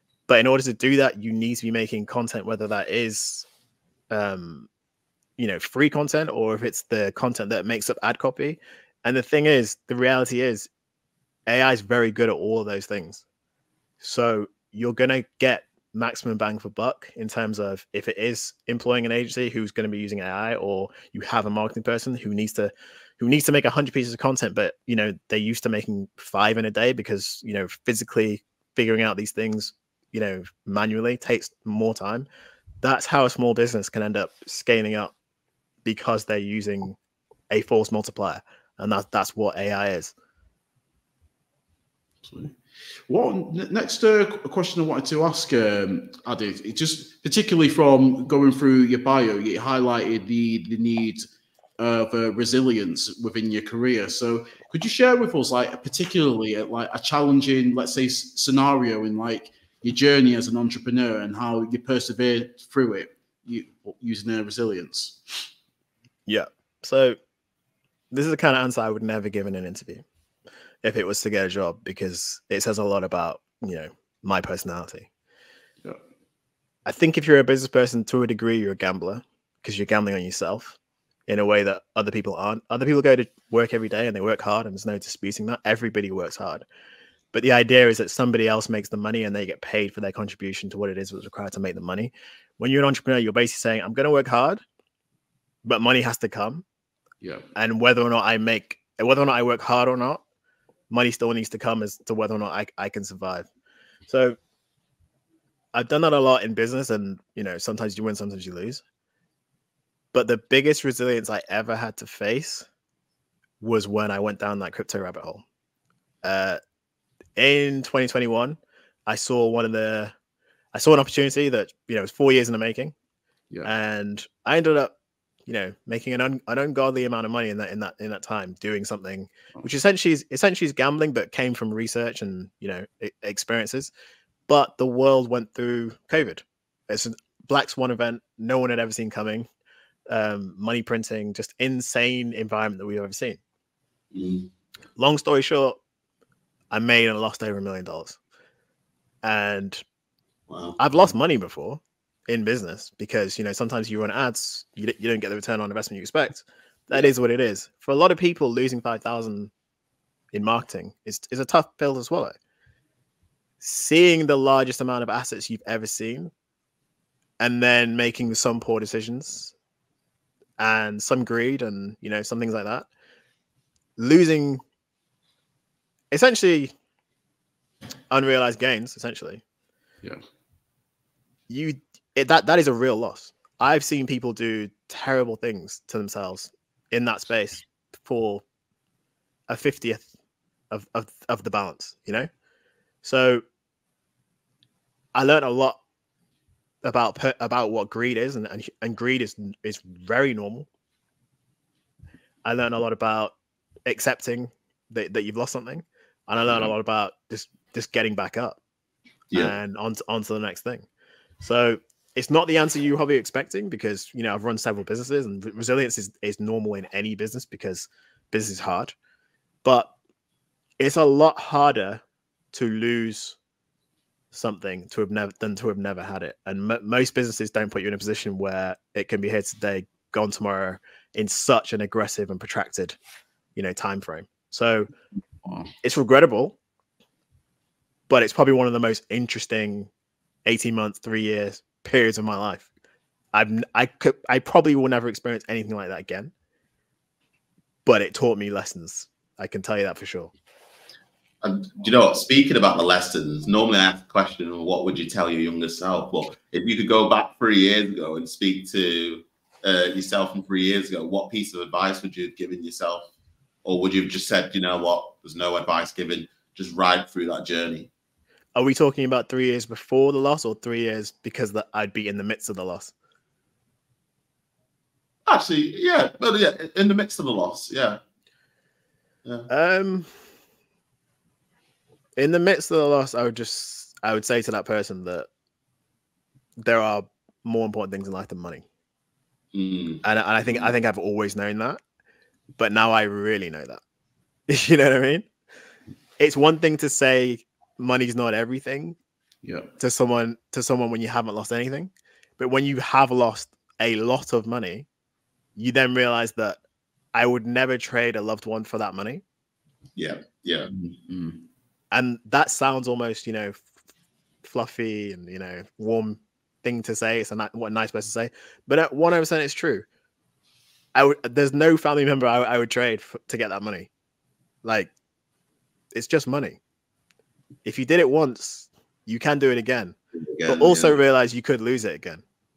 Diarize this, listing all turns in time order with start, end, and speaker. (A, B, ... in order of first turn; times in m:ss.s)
0:00.3-0:03.5 A
0:04.1-0:04.7 A
0:05.4-0:10.7 A
0:11.5-0:13.2 A
0:14.0-0:32.3 A
0:32.8-0:35.1 A
0:35.8-0:37.0 A
0:37.5-0:40.1 A
0:42.2-0:51.3 B
0:51.8-1:05.5 B
1:06.3-1:07.2 A
1:08.1-1:10.0 A
1:10.8-1:15.1 A
1:16.9-1:26.7 A
1:27.3-1:34.6 A
1:35.6-1:36.6 A
1:37.2-1:37.5 B
1:37.6-1:40.2 A
1:40.9-1:43.5 A
1:44.1-1:44.4 A
1:45.7-1:48.8 A
1:50.1-1:52.7 A
1:53.6-1:55.4 A
1:56.2-1:56.6 A
1:57.4-2:00.1 A
2:00.7-2:02.9 A
2:03.6-2:04.9 A
2:05.5-2:13.9 A
2:14.5-2:19.5 A
2:20.1-2:23.4 A
2:24.1-2:24.5 C
2:25.0-2:25.8 A
2:26.7-2:28.2 A
2:29.2-2:29.8 A
2:30.5-2:30.8 C
2:30.8-2:39.5 A
2:40.3-2:42.4 A
2:43.6-2:46.3 A
2:47.4-2:49.5 A
2:50.6-2:52.9 A
2:54.0-2:54.6 A
2:56.1-2:56.7 A
2:58.1-2:59.4 A
3:01.5-3:08.4 A
3:09.5-3:10.1 A
3:10.7-3:12.3 A
3:13.0-3:13.4 A
3:15.2-3:15.8 A
3:16.8-3:20.7 A
3:22.4-3:23.3 A
3:23.9-3:28.6 A
3:29.3-3:30.9 A
3:31.4-3:39.0 A
3:39.6-3:39.9 A
3:40.8-3:43.4 A
3:44.3-3:53.0 A
3:53.6-3:54.9 A
3:55.4-3:55.7 B
3:55.8-3:56.6 A
3:58.1-3:59.9 A
4:00.5-4:02.7 A
4:03.3-4:06.3 A
4:07.8-4:10.3 A
4:11.4-4:23.1 C
4:23.6-4:27.9 C
4:28.6-4:32.9 A
4:35.3-4:38.0 C
4:39.5-4:40.1 A
4:42.2-4:45.3 A
4:46.6-4:48.6 A
4:49.5-4:50.7 C
4:50.0-4:51.8 A
4:52.6-4:53.8 A
4:54.5-4:55.3 A
4:56.2-4:59.0 A
4:59.4-4:59.7 B
4:59.8-5:04.9 A
5:05.6-5:06.6 A
5:07.1-5:09.2 A
5:10.0-5:10.7 C
5:10.7-5:11.4 B
5:11.9-5:13.6 A
5:14.4-5:19.8 A
5:21.0-5:23.9 A
5:24.6-5:24.9 A
5:25.9-5:26.6 A
5:27.6-5:32.2 A
5:30.2-5:31.0 C